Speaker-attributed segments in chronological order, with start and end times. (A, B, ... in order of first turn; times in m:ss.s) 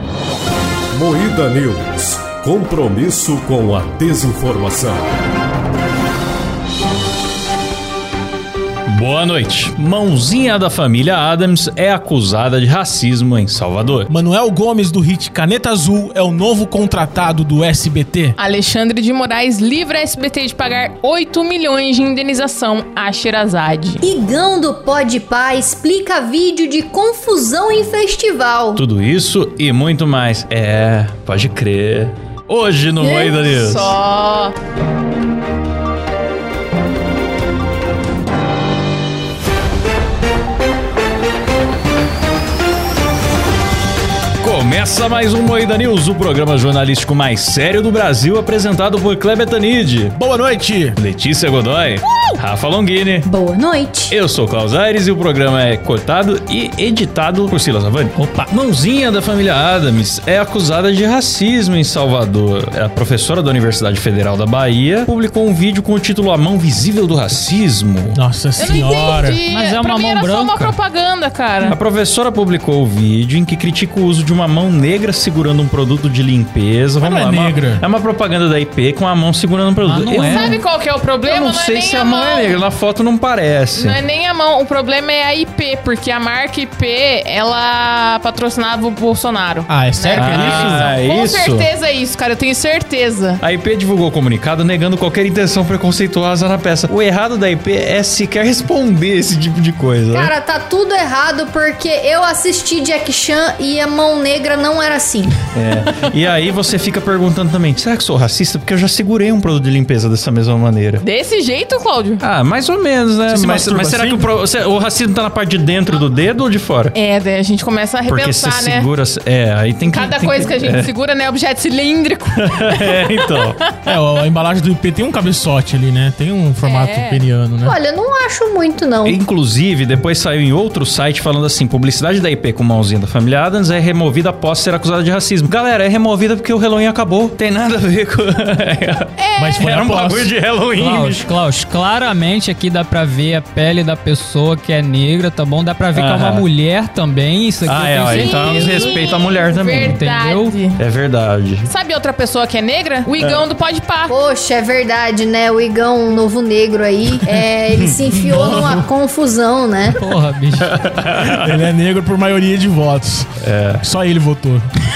0:00.9-0:05.1 A
0:08.9-0:14.1 B
0:14.1-0:18.4 C
0:18.4-0:24.0 D
0:24.0-0:28.8 E
0:28.8-0:34.0 B
0:33.0-0:33.4 E
0:33.4-0:34.5 D
0:44.4-0:50.2 B
0:50.2-0:51.0 C
0:51.0-0:53.3 B
0:53.3-0:54.2 E
0:54.1-1:08.2 B
1:08.1-1:09.4 C
1:08.6-1:11.8 D
1:09.4-1:10.8 F
1:11.7-1:20.6 B
1:17.0-1:17.8 C
1:19.8-1:20.6 F
1:20.2-1:22.6 D
1:21.2-1:24.0 B
1:23.8-1:33.4 D
1:29.7-1:30.9 C
1:30.2-1:31.7 B
1:33.4-1:40.3 B
1:40.1-1:45.4 E
1:45.5-1:51.0 B
1:51.0-1:52.2 D
1:52.2-1:57.0 B
1:53.3-1:54.3 C
1:56.9-1:58.9 D
1:58.1-2:00.9 B
1:59.9-2:03.7 D
2:02.4-2:03.6 B
2:03.9-2:07.8 C
2:06.6-2:07.2 D
2:07.6-2:09.2 E
2:09.0-2:21.3 B
2:19.2-2:19.6 D
2:19.4-2:20.3 C
2:20.8-2:30.6 F
2:25.9-2:26.5 B
2:27.6-2:30.0 B
2:28.0-2:30.8 D
2:30.7-2:31.7 B
2:31.6-2:34.1 D
2:33.2-2:33.5 B
2:34.1-2:40.0 E
2:37.8-2:38.8 B
2:38.3-2:38.8 C
2:39.9-2:40.7 F
2:40.6-2:41.7 B
2:41.2-2:44.6 C
2:43.4-2:43.9 B